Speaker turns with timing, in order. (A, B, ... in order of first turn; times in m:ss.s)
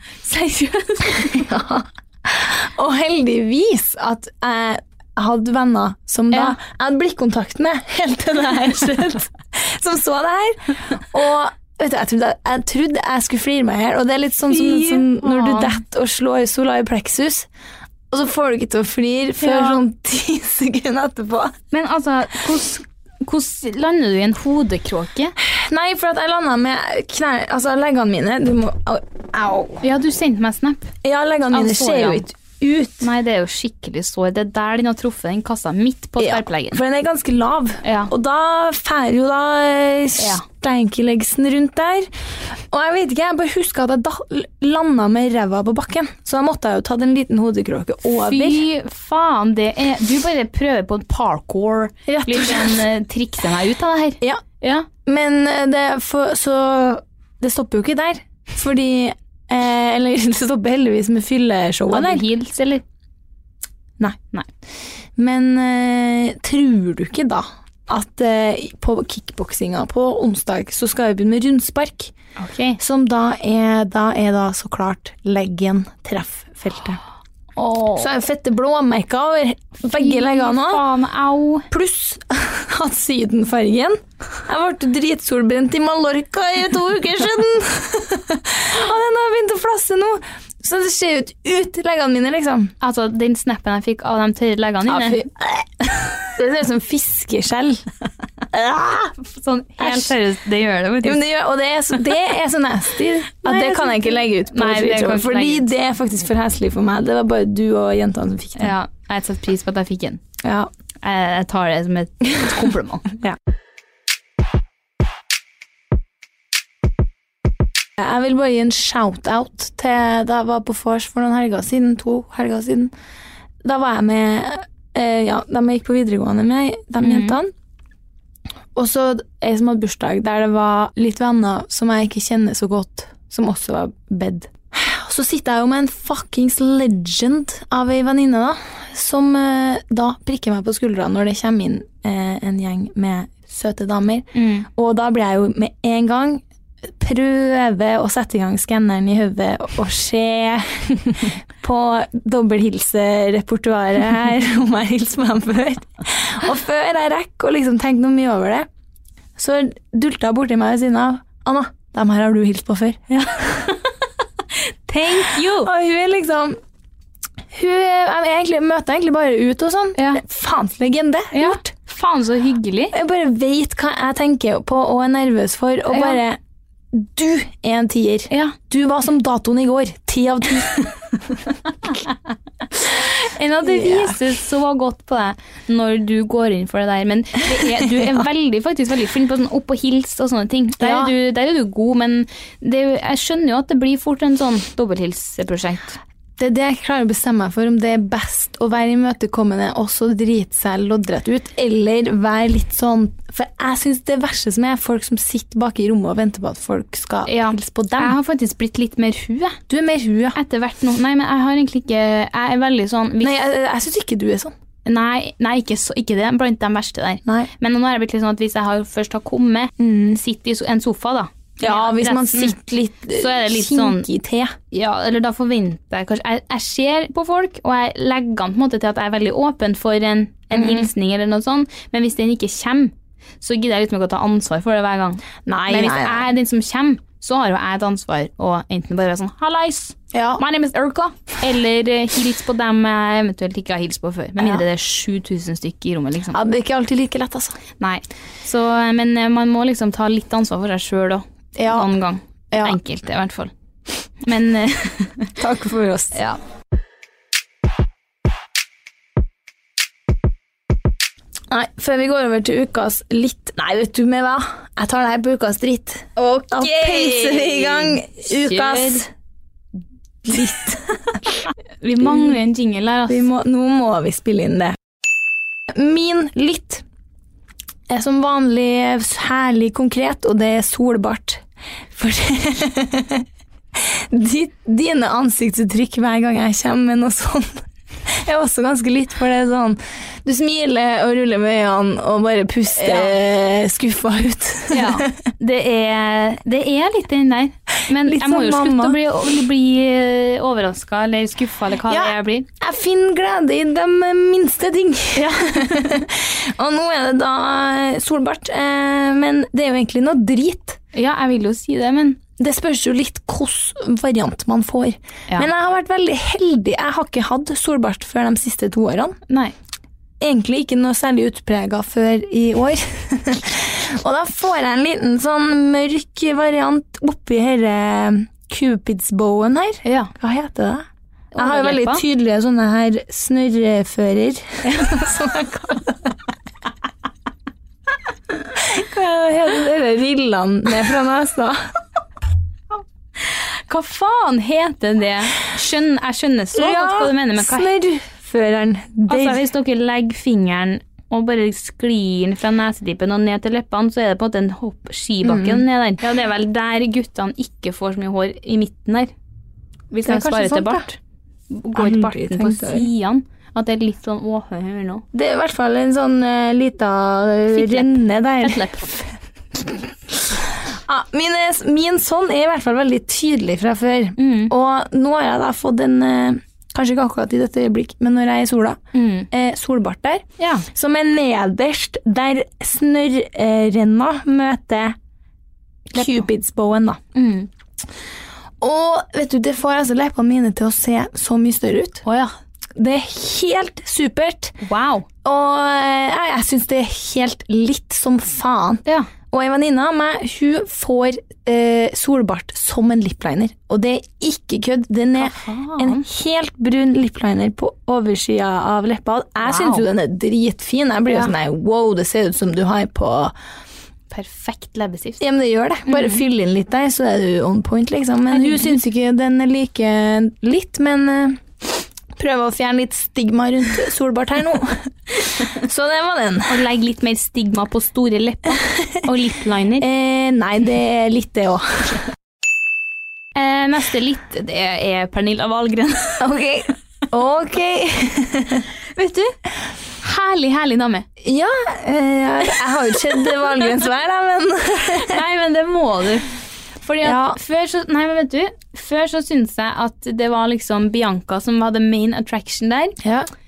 0:00.2-0:01.4 A
0:01.2-0:17.5 B
0:06.3-0:06.6 A
0:14.5-0:15.8 A
0:18.1-0:21.6 B
0:19.4-0:19.8 A
0:21.7-0:25.4 A
0:25.4-0:29.8 B
0:29.8-0:30.9 A
0:31.0-0:33.1 B
0:31.5-0:32.3 A
0:33.0-0:36.8 A
0:36.2-0:42.1 B
0:37.8-0:38.1 A
0:40.2-0:40.4 A
0:42.7-0:48.6 B
0:48.1-0:54.9 A
0:52.1-0:52.8 B
0:55.0-1:02.2 B
1:01.9-1:02.8 A
1:05.2-1:12.1 B
1:12.4-1:12.8 A
1:12.8-1:17.0 B
1:17.6-1:18.1 A
1:18.0-1:20.8 B
1:20.0-1:21.7 A
1:21.7-1:32.7 B
1:32.8-1:35.2 A
1:34.9-1:37.8 B
1:38.5-1:39.1 B
1:39.2-1:41.2 A
1:39.8-1:40.1 B
1:41.0-1:48.8 B
1:43.4-1:45.7 A
1:48.6-1:50.2 A
1:50.4-1:50.7 B
1:51.0-1:53.1 A
1:58.0-2:02.9 B
2:03.6-2:07.5 B
2:07.0-2:07.4 A
2:08.8-2:38.7 B
2:24.3-2:24.7 A
2:39.4-2:43.6 B
2:43.2-2:43.8 A
2:44.9-2:45.7 A
2:45.2-2:46.6 B
2:47.5-2:51.7 B
2:50.0-2:50.2 A
2:51.3-2:53.0 A
2:52.9-2:56.4 B
2:55.9-2:56.2 A
2:56.9-3:00.9 B
2:58.3-2:58.6 A
3:03.0-3:16.0 A
3:03.6-3:04.2 B
3:10.8-3:11.1 B
3:16.4-3:28.2 B
3:27.3-3:29.6 A
3:29.7-3:30.4 B
3:30.4-3:33.4 A
3:33.2-3:34.5 B
3:34.9-3:42.6 A
3:37.2-3:37.5 B
3:39.8-3:40.2 B
3:41.6-3:44.6 B
3:43.1-3:44.1 A
3:44.7-4:06.4 A
3:50.5-3:50.9 B
3:55.5-3:56.3 B
4:00.1-4:00.4 B
4:06.3-4:07.6 B
4:07.8-4:13.5 A
4:11.6-4:11.9 B
4:12.5-4:12.8 B
4:14.2-4:15.3 A
4:15.4-4:16.2 B
4:16.1-4:16.4 A
4:21.5-4:29.1 B
4:26.2-4:29.0 A
4:30.2-4:31.2 B
4:31.8-4:33.3 A
4:32.0-4:32.3 B
4:33.1-4:34.8 B
4:35.7-4:36.8 B
4:37.9-4:41.4 B
4:41.9-4:55.2 B
4:52.8-4:53.2 A
4:54.7-5:02.5 A
4:58.0-4:59.0 B
5:01.9-5:10.8 B
5:05.2-5:05.9 A
5:10.9-5:12.2 A
5:12.4-5:19.2 B
5:19.3-5:19.5 A
5:20.2-5:30.8 B
5:29.8-5:30.1 A
5:31.3-5:32.0 A
5:31.4-5:36.2 B
5:38.6-5:41.6 B
5:43.3-5:47.7 A
5:46.5-5:49.4 B
5:49.1-5:59.1 A
5:55.2-5:55.6 B
5:59.9-6:01.0 A
6:00.0-6:00.9 B
6:01.5-6:05.0 A
6:01.8-6:02.9 B
6:05.1-6:18.8 B
6:07.5-6:08.9 A
6:14.2-6:14.5 A
6:18.9-6:19.3 A
6:19.3-6:25.0 B
6:20.4-6:20.7 A
6:25.9-6:27.0 B
6:26.0-6:26.2 A
6:27.1-6:27.5 A
6:28.6-6:32.0 B
6:32.1-6:32.3 A
6:32.8-6:34.5 B
6:34.6-6:35.1 A
6:35.2-6:53.3 B
6:45.2-6:46.0 A
6:49.4-6:49.8 A
6:54.1-6:55.2 A
6:55.2-7:04.9 B
6:55.9-6:56.2 A
6:58.3-6:58.8 A
7:05.4-7:06.6 B
7:06.5-7:09.9 A
7:09.8-7:12.0 B
7:13.4-7:16.2 A
7:16.2-7:18.7 B
7:19.0-7:19.4 A
7:20.0-7:21.1 A
7:21.2-7:25.2 B
7:25.0-7:26.3 A
7:26.8-7:33.0 A
7:27.0-7:27.4 B
7:33.0-7:33.3 B